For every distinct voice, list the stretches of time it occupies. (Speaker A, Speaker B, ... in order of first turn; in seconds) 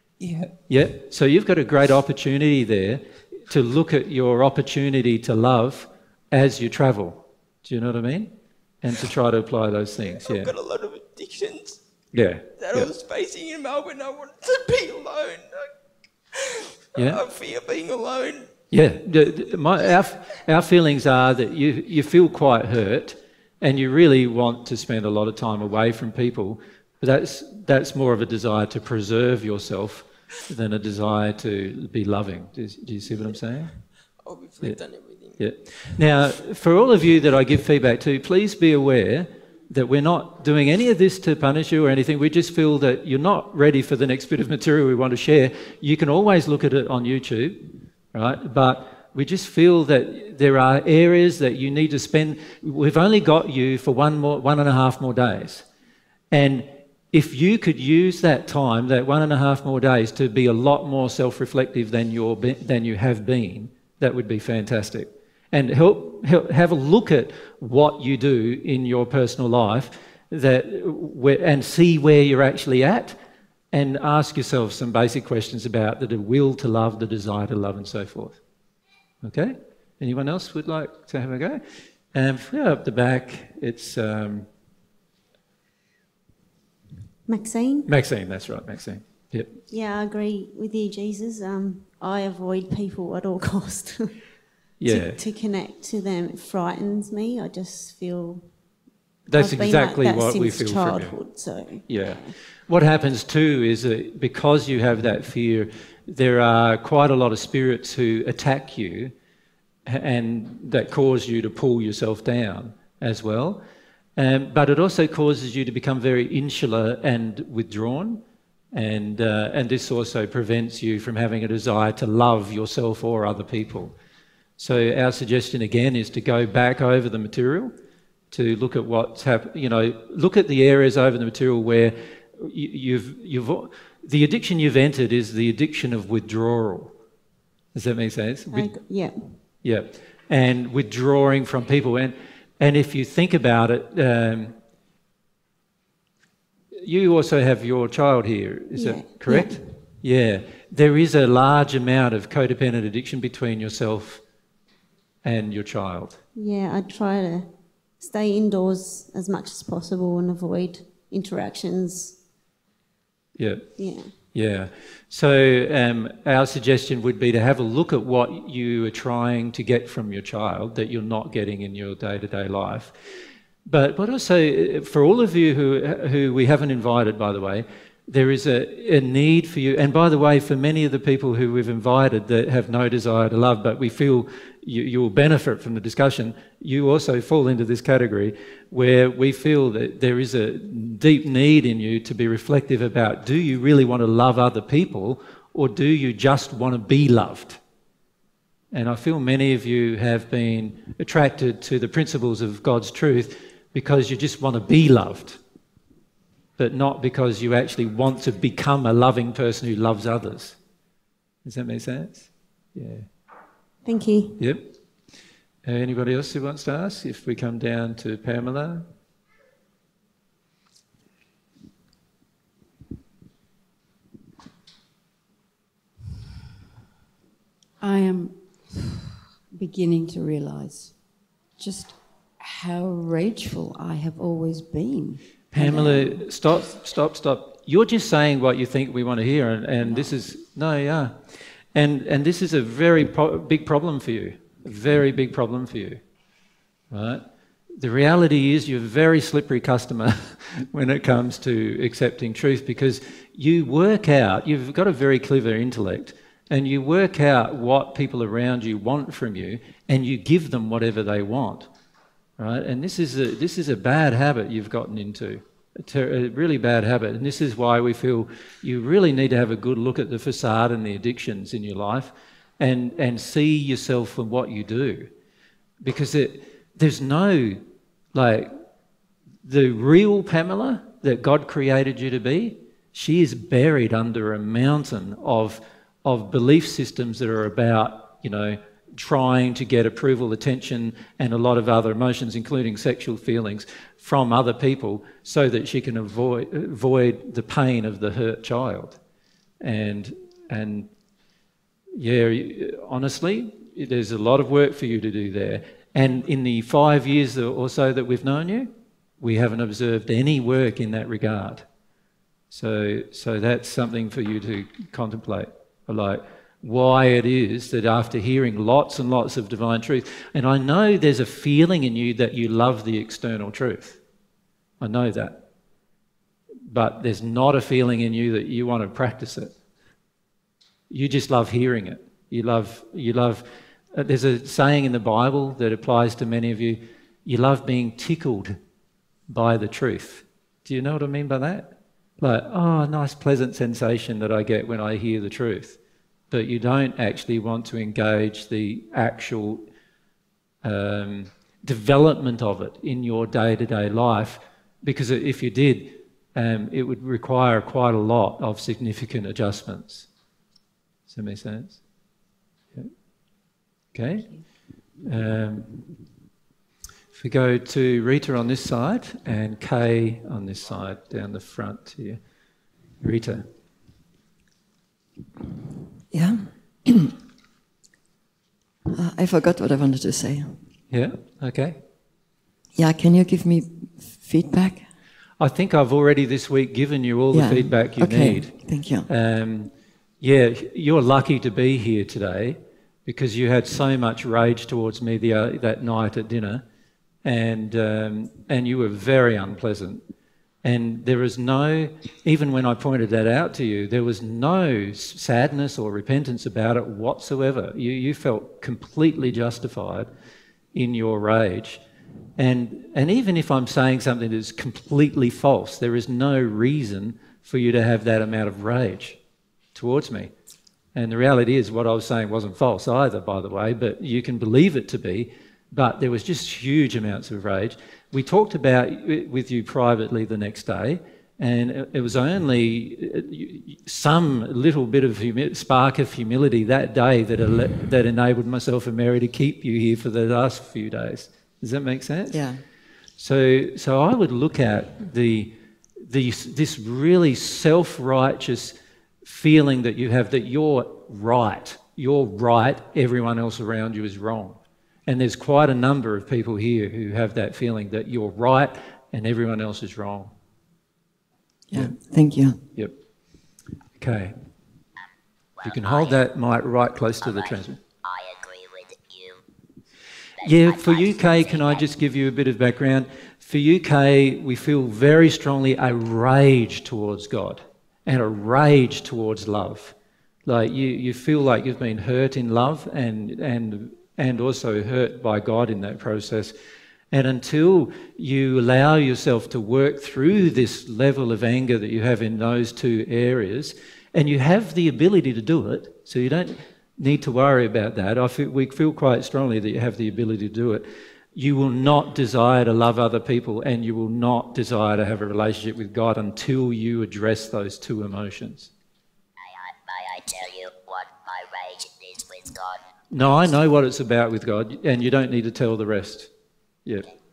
Speaker A: 0.7-10.5, 12.1-12.9, 16.9-17.2, 18.7-33.8, 35.3-55.6, 56.3-73.2, 73.7-78.4, 79.2-81.6, 82.1-84.5, 87.8-89.6, 94.8-95.2, 99.3-101.2, 101.9-109.1, 109.9-113.6, 114.2-124.0, 124.6-127.7, 128.3-136.9, 137.7-138.7, 139.6-144.6, 146.8-154.2, 155.2-156.2, 163.4-163.7, 164.3-172.9, 173.7-197.6, 198.7-205.4, 206.6-210.6, 211.4-213.1, 214.4-214.7, 215.6-218.9, 235.5-246.0, 246.9-247.2, 247.7-261.7, 262.4-275.1, 275.8-277.6, 278.1-278.5, 279.4-299.0, 299.6-300.9, 301.9-311.6, 312.5-324.0, 324.8-325.4, 326.7-329.5, 330.9-338.6, 339.3-345.8, 346.3-349.6, 350.6-360.1, 361.1-361.8, 363.9-364.4, 365.1-365.8, 367.1-372.2, 373.0-373.5, 380.9-381.8, 385.4-396.6, 397.2-400.0, 400.6-410.1, 410.7-411.8, 412.4-419.2, 419.7-420.3, 420.9-442.4, 443.2-460.3, 464.0-464.3, 465.6-467.8, 470.4-479.9, 480.4-486.5, 487.1-508.7, 513.1-516.3
Speaker B: 10.2-11.8, 12.6-15.5, 16.4-18.5, 34.2-35.5
Speaker C: 87.3-87.9, 89.7-94.1, 94.8-98.5, 99.3-102.3, 138.5-139.4, 148.7-149.6, 156.3-162.2, 163.8-164.1, 213.8-214.4
Speaker D: 227.8-231.0, 231.6-236.2
Speaker E: 376.1-377.1, 378.9-380.6, 382.7-384.9, 387.3-389.1, 442.3-442.6, 461.7-462.6
Speaker F: 465.6-466.2, 467.2-467.5, 468.0-469.4, 470.4-471.8, 509.6-512.8